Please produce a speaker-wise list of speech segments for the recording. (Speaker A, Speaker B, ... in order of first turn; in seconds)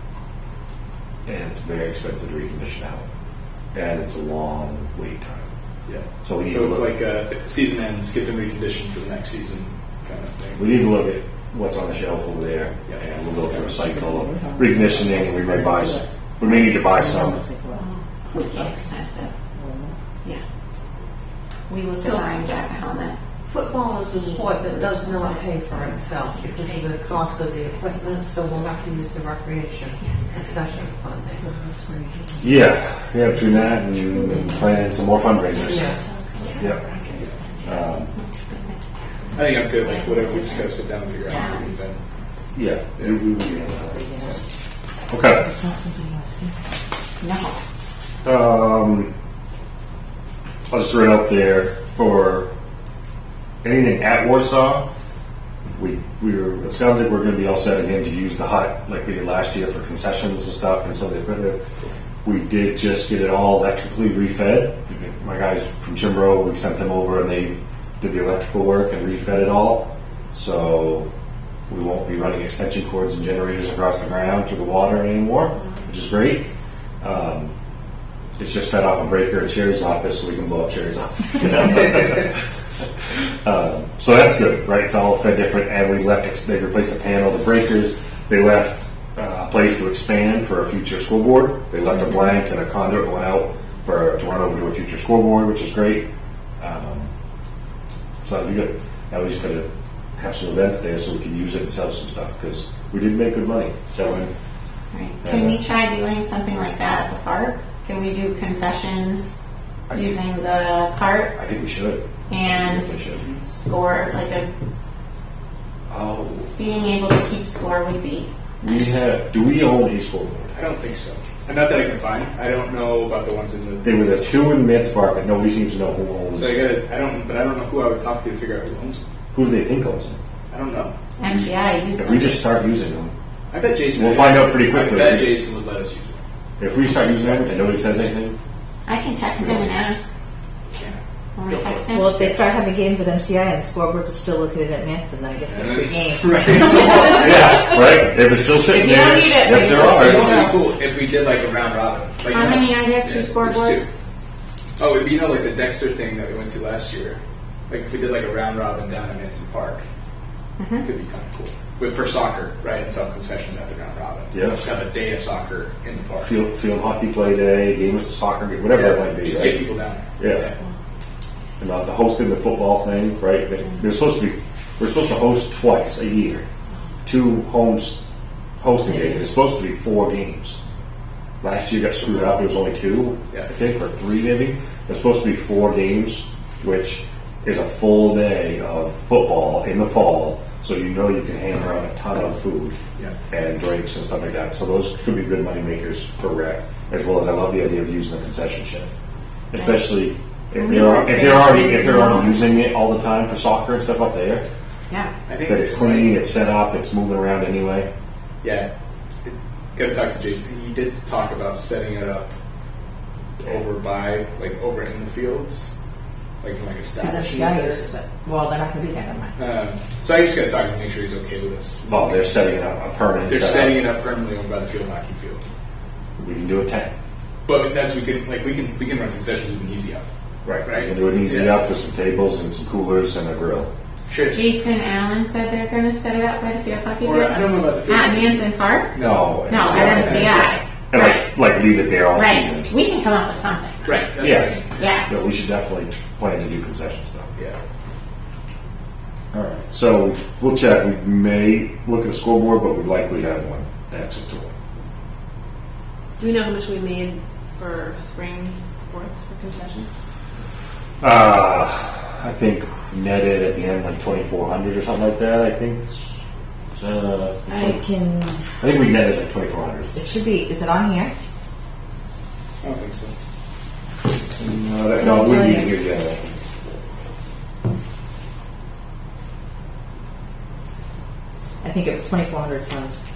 Speaker A: 1.2-3.0, 3.7-5.5, 6.2-7.0, 10.6-17.4, 32.4-35.9, 37.6-38.1, 42.5-44.4, 45.1-45.5, 48.2-49.1, 50.7-52.5, 53.6-54.9, 55.8-61.6, 62.2-71.1, 71.7-76.5, 77.0-77.5, 78.4-82.4, 83.4-96.0, 96.6-97.1, 98.2-104.3, 105.2-105.6, 109.9-110.2, 111.3-113.3, 115.9-116.6, 118.6-120.5, 123.8-126.6, 129.3-130.2, 131.2-133.1, 133.9-135.4, 136.6-138.4, 139.4-139.7, 147.0-150.5, 164.3-164.6, 166.2-169.7, 170.2-170.5, 171.6-176.4, 177.0-178.0, 178.6-180.6, 181.4-192.8, 193.3-198.9, 199.5-204.4, 205.4-207.9, 221.8-223.8, 226.2-226.9, 230.4-233.7, 238.9-242.7, 244.2-247.3, 249.3-254.5, 261.0-266.0, 266.7-267.8, 268.6-269.9, 274.3-276.3
Speaker B: 5.8-10.8, 12.8-13.7, 39.3-42.0, 120.5-124.4, 126.3-129.0, 130.5-130.9, 133.5-136.2, 140.7-142.3, 145.5-147.6, 149.8-153.9, 154.8-159.8, 160.8-166.3, 168.7-170.6, 205.2-206.2, 208.4-208.7, 209.2-212.3, 213.4-215.7, 216.4-217.9, 219.3-222.3, 223.2-225.4, 227.4-230.0, 230.6-231.6, 234.1-234.5, 237.0-240.5, 243.8-244.9, 272.6-273.1
Speaker C: 13.6-19.9, 31.4-32.6, 33.4-33.8, 43.8-44.4, 45.3-46.5, 141.9-147.0, 148.6-150.5, 179.0-179.3, 216.9-219.3, 267.5-268.4, 269.9-271.1, 275.0-275.8, 281.6-283.0
Speaker D: 17.7-19.3, 21.7-23.2, 24.2-25.5, 26.3-26.8, 30.0-30.2, 35.6-38.8, 39.8-40.7, 41.2-41.7, 47.2-47.6, 104.9-111.3, 112.3-114.5, 116.5-119.0, 131.2-132.4, 138.8-140.1, 141.3-142.4, 149.1-150.0, 152.3-153.9, 160.6-160.9, 200.6-202.5, 234.3-238.9, 239.4-241.3, 242.1-244.0, 244.7-245.1
Speaker E: 23.4-31.5, 34.2-34.9, 35.6-36.0
Speaker F: 256.2-259.9